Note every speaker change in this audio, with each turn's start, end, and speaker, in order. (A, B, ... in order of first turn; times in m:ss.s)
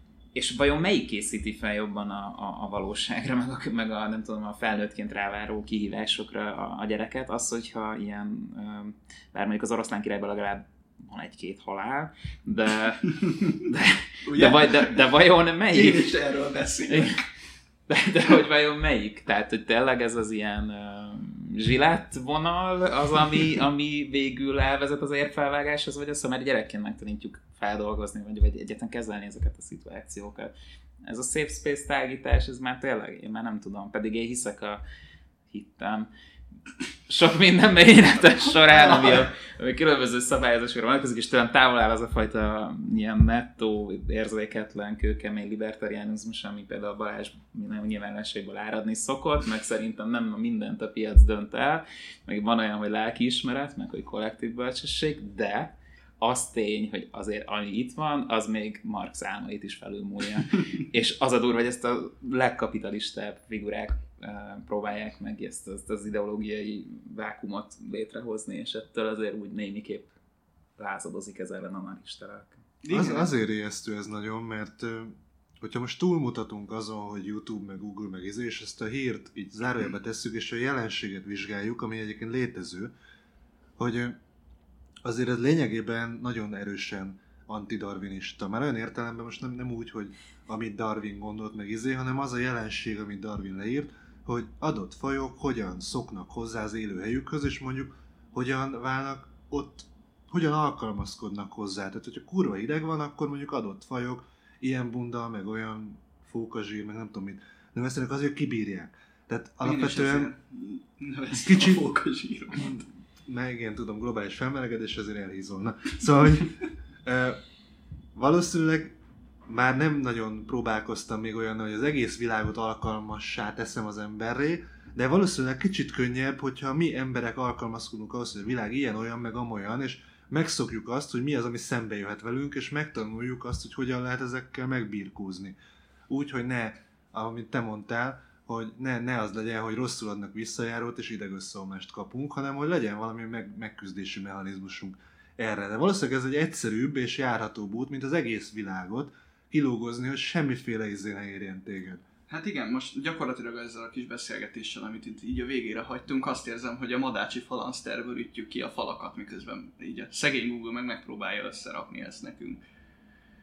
0:00.3-0:16.1 A
0:14.2-0:15.1 B
0:15.7-0:17.2 B
0:16.9-0:17.1 A
0:17.9-0:30.5 A
0:31.0-0:34.8 A
0:35.5-0:36.1 A
0:37.1-1:10.1 A
0:38.6-0:39.2 B
1:10.8-1:12.6 A
1:12.8-1:13.3 B
1:12.9-1:22.9 C
1:23.8-1:24.2 C
1:25.0-1:50.3 C
1:49.6-1:52.8 B
1:51.4-1:51.8 C
1:52.5-1:57.4 C
1:58.1-2:15.6 C
2:16.1-2:32.0 C
2:32.3-2:42.6 B